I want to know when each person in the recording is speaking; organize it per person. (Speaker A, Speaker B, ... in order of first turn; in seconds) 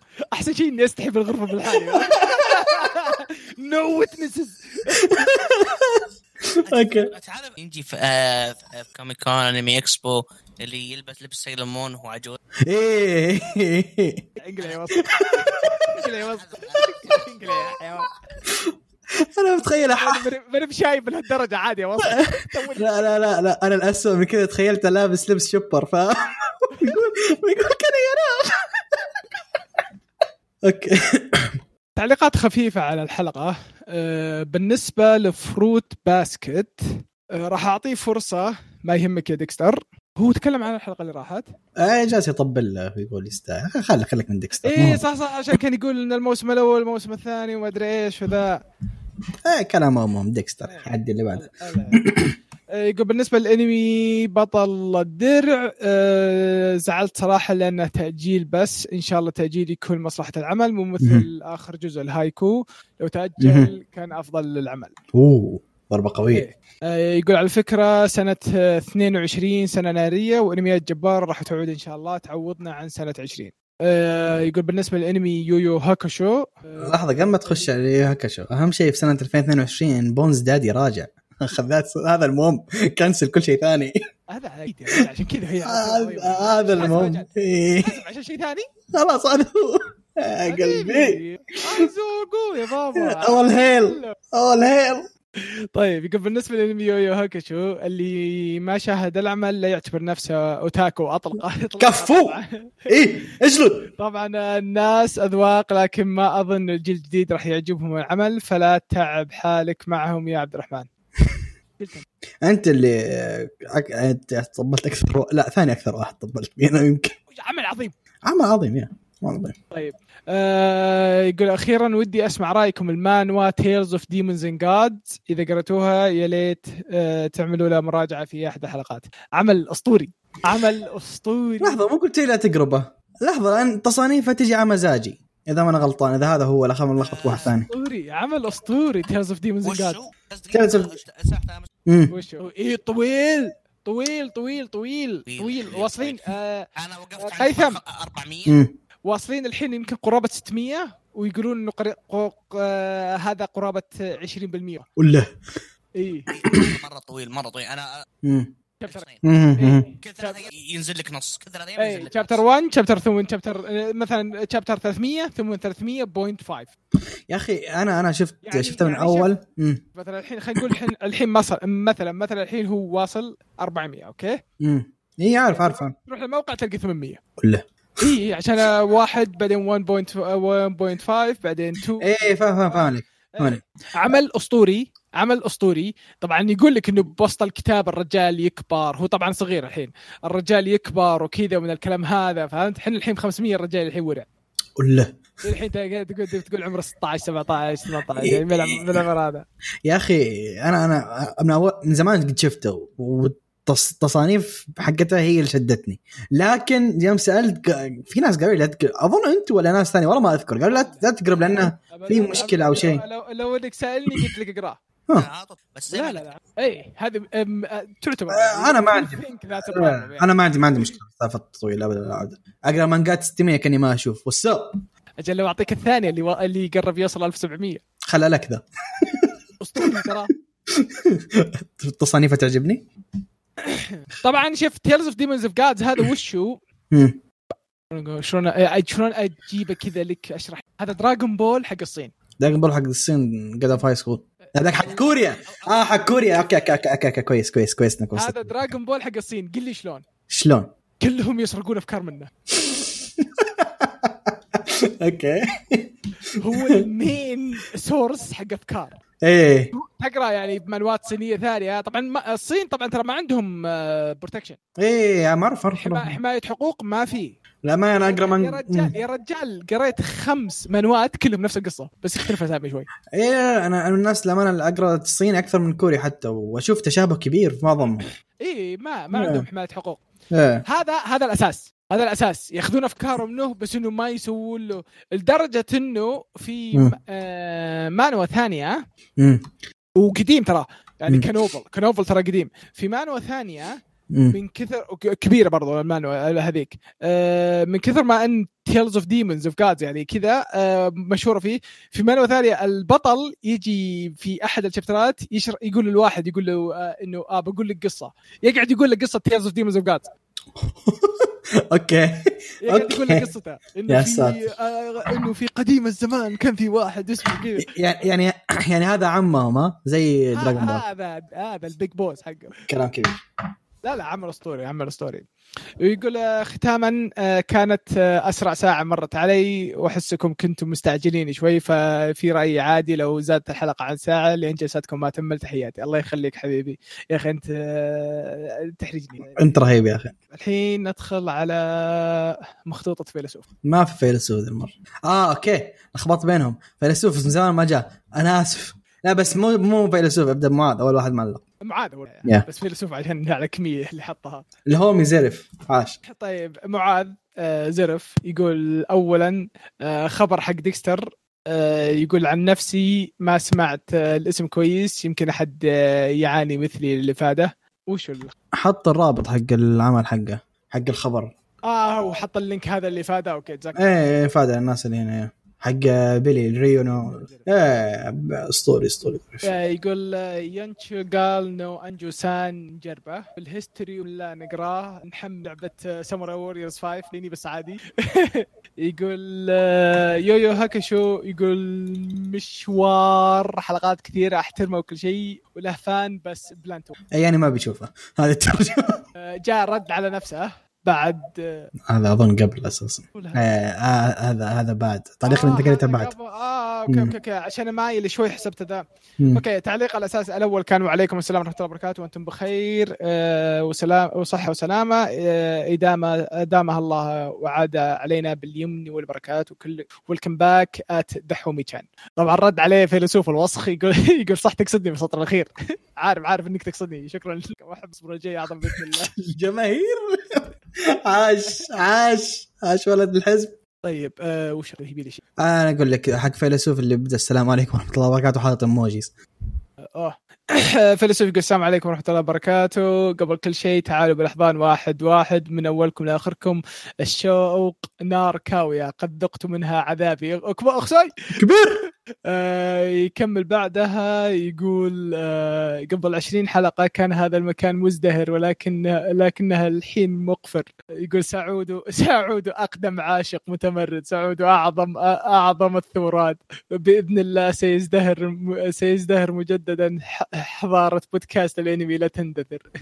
Speaker A: 0.3-5.3, 14.4-18.1, 19.9-23.1, 31.9-41.5, 44.6-48.6, 50.7-52.0, 52.7-64.9, 66.3-77.7, 84.3-88.7, 90.5-94.2, 95.4-103.2, 104.0-110.9, 111.8-112.0, 117.3-117.9, 119.7-131.8, 137.2-140.0, 142.1-146.7, 147.2-147.8, 149.0-154.9, 155.9-156.3, 158.8-160.5, 161.8-166.7, 168.4-169.3, 169.9-174.4, 175.5-177.2, 178.0-194.2, 195.4-199.4, 210.7-211.0, 211.9-214.8, 215.9-220.9, 225.2-227.8, 229.6-230.3, 233.6-236.6, 237.9-242.1, 244.5-245.0, 248.2-250.0, 251.0-252.3, 256.4-259.0, 259.7-264.6, 265.8-267.4, 268.0-272.9, 278.4-280.0, 280.6-288.8, 289.9-310.1, 312.6-317.7, 320.3-322.6, 323.8-325.3, 325.8-339.4, 340.3-343.4, 351.6-354.5, 356.0-368.3, 371.6-373.8, 376.9-377.5, 379.4-396.9, 399.1-401.7, 403.1-403.4, 405.2-429.1, 433.8-435.2, 439.9-451.4, 452.2-472.7
Speaker B: 1.9-2.4, 4.9-7.1, 12.7-14.3, 15.2-15.8, 18.5-20.2, 22.1-29.2, 30.6-31.6, 41.8-45.0, 49.4-52.3, 61.0-61.2, 63.4-63.7, 65.1-66.5, 76.8-84.0, 85.6-88.0, 88.9-91.9, 93.0-95.1, 101.8-102.4, 102.9-103.9, 112.4-117.1, 118.2-119.5, 131.6-137.7, 140.5-140.9, 141.8-142.1, 148.4-148.7, 155.0-155.3, 158.2-158.5, 159.2-159.8, 167.3-169.8, 174.6-175.9, 177.4-178.1, 182.0-183.6, 194.8-195.1, 198.1-199.0, 199.8-213.0, 218.3-224.8, 228.1-230.0, 230.7-232.8, 236.9-237.2, 242.4-248.6, 250.3-250.7, 252.5-255.9, 256.5-256.8, 259.2-259.7, 264.8-266.2, 267.6-268.9, 273.1-278.1, 279.1-279.4, 280.3-280.6, 289.2-289.5, 294.1-294.4, 310.6-313.3, 313.9-314.4, 317.6-320.8, 322.7-323.2, 339.3-340.1, 343.6-351.4, 354.7-356.0, 368.5-371.3, 373.8-379.5, 397.1-399.0, 401.9-406.1, 406.9-407.1, 409.2-409.4, 428.7-433.5, 435.4-439.1, 451.3-451.8
Speaker C: 6.7-12.4, 16.1-17.6, 137.0-137.5, 139.6-141.7, 145.3-146.2, 146.8-148.6, 156.3-158.0, 158.9-159.2, 160.0-162.4, 215.1-216.3, 245.5-245.7